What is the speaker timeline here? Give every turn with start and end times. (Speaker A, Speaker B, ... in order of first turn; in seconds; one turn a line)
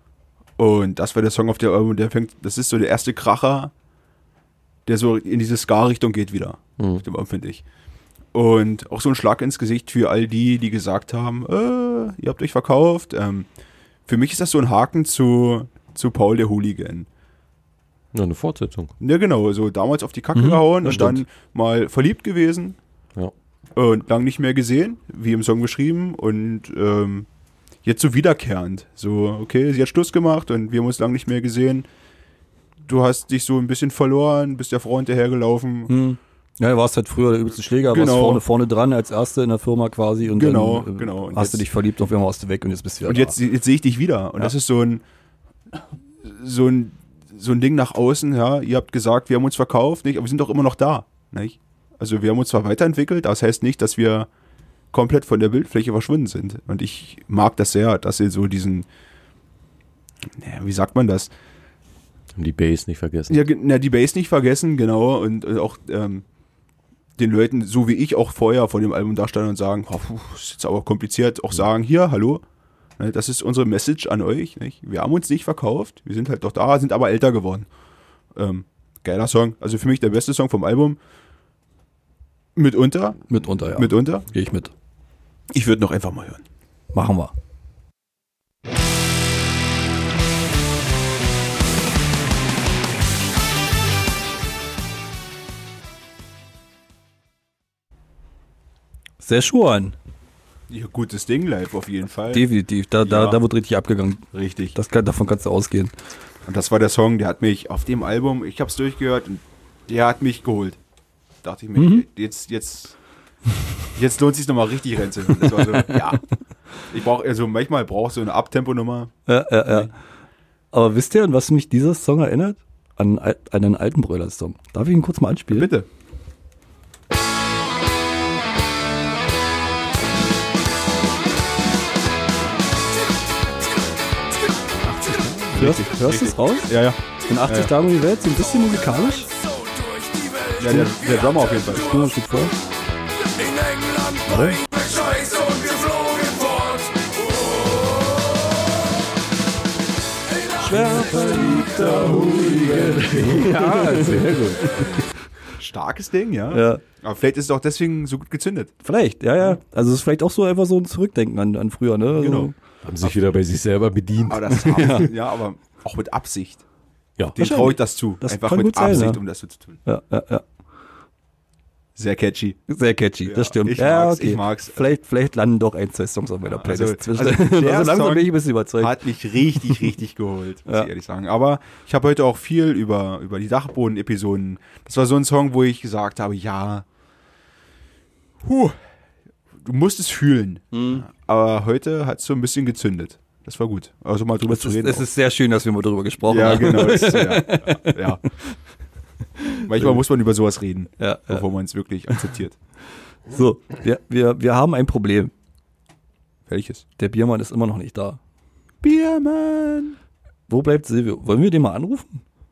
Speaker A: 0.6-3.7
Speaker A: 4.8-7.6
Speaker B: 6.8-7.0
Speaker A: 8.3-13.5
Speaker A: 14.1-17.1
Speaker B: 18.1-18.9
Speaker A: 19.0-22.8
Speaker C: 20.3-21.2
Speaker A: 23.8-27.3
Speaker A: 27.8-31.9
Speaker A: 32.9-35.9
Speaker C: 35.9-43.3
Speaker A: 37.9-38.4
Speaker A: 40.3-41.6
Speaker A: 43.0-45.0
Speaker A: 46.2-54.3
Speaker A: 54.9-58.9
Speaker A: 60.4-61.3
Speaker B: 62.4-63.4
Speaker A: 63.3-66.2
Speaker A: 67.2-72.4
Speaker A: 73.0-77.7
Speaker A: 78.3-81.0
Speaker A: 82.5-84.2
Speaker C: 83.3-84.7
Speaker A: 85.5-86.4
Speaker C: 86.9-87.3
Speaker C: 99.2-99.9
Speaker A: 100.7-102.5
Speaker C: 102.3-105.9
Speaker A: 103.0-103.4
Speaker A: 104.3-104.8
Speaker A: 106.5-110.8
Speaker A: 111.4-113.0
Speaker C: 111.8-112.0
Speaker A: 113.9-116.2
Speaker C: 115.4-116.0
Speaker A: 116.8-119.1
Speaker C: 119.3-119.9
Speaker C: 120.7-125.7
Speaker A: 125.5-125.9
Speaker A: 134.9-137.7
Speaker C: 135.5-139.3
Speaker A: 140.6-141.9
Speaker C: 140.6-142.5
Speaker C: 144.2-144.6
Speaker B: 145.2-146.8
Speaker C: 150.6-155.1
Speaker B: 150.7-155.0
Speaker A: 155.6-158.7
Speaker C: 156.5-156.8
Speaker C: 158.8-162.5
Speaker A: 162.2-162.5
Speaker B: 162.8-164.9
Speaker A: 164.3-166.6
Speaker C: 164.6-165.1
Speaker B: 167.2-167.4
Speaker A: 167.3-169.8
Speaker C: 167.4-169.2
Speaker C: 169.8-170.4
Speaker A: 171.9-172.6
Speaker C: 172.7-179.8
Speaker A: 173.2-174.9
Speaker A: 176.5-186.8
Speaker A: 188.4-188.8
Speaker A: 189.6-195.1
Speaker C: 190.7-191.0
Speaker C: 194.4-198.5
Speaker A: 196.2-198.2
Speaker C: 199.4-200.0
Speaker A: 199.7-202.6
Speaker C: 201.0-201.4
Speaker C: 203.3-205.3
Speaker A: 206.5-206.8
Speaker C: 207.0-208.2
Speaker A: 208.8-210.0
Speaker C: 210.5-212.2